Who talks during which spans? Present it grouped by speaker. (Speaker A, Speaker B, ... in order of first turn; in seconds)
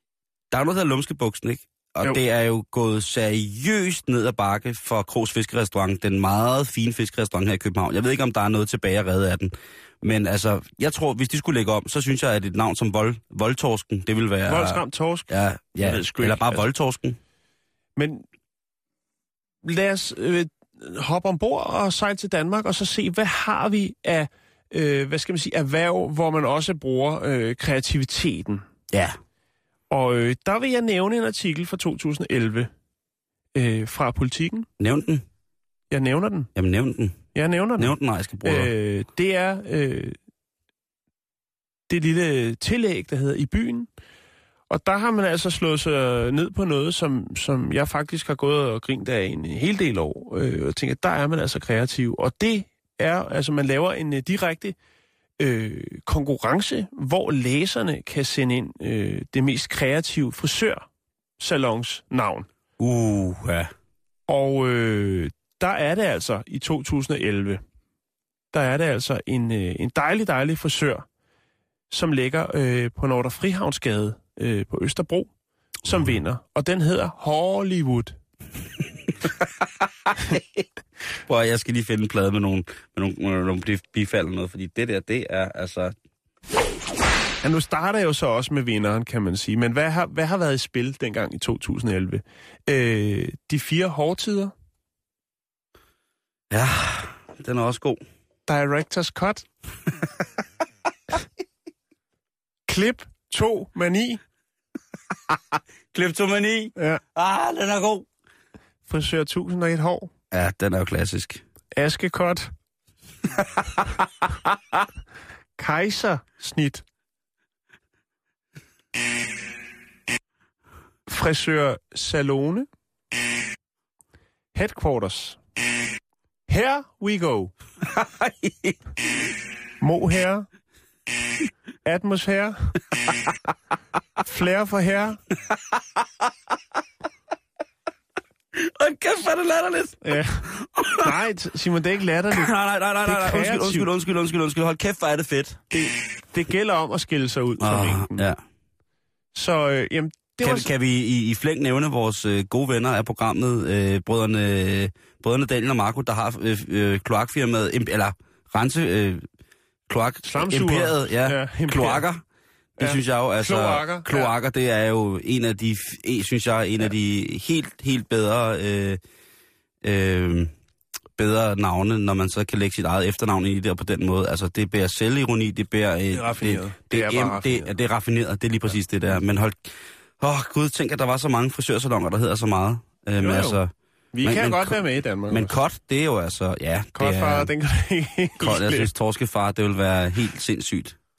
Speaker A: 0.5-17.2, 28.9-29.2, 34.8-35.2, 36.5-37.3, 37.8-38.7, 62.8-63.7, 80.1-80.6, 81.3-86.0, 96.5-98.0, 105.9-108.1, 110.3-111.4, 127.8-128.8, 138.5-141.1, 142.3-145.6, 147.6-148.4, 150.4-159.3, 159.9-162.2, 162.8-169.0, 169.8-170.5, 171.2-183.7, 184.2-187.5, 188.4-191.0
Speaker B: 14.5-16.6, 18.0-18.2, 19.6-28.6, 29.9-32.7, 33.5-34.7, 35.9-36.5, 37.3-40.2, 41.9-43.9, 44.7-54.8, 55.4-60.9, 61.4-62.5, 64.3-67.6, 68.5-71.1, 71.9-75.3, 75.8-78.2, 87.4-94.5, 98.5-99.5, 102.7-104.2, 106.8-107.0, 108.9-110.1, 111.8-112.5, 115.6-116.8, 121.1-122.7, 124.5-125.4, 126.5-127.5, 129.8-130.5, 131.8-132.8, 134.2-135.2, 140.0-140.5, 141.0-142.5, 143.1-143.9, 145.7-148.3, 149.3-150.7, 160.2-162.1, 162.8-164.3, 176.1-177.7, 183.2-183.6, 184.1-185.5, 186.9-188.9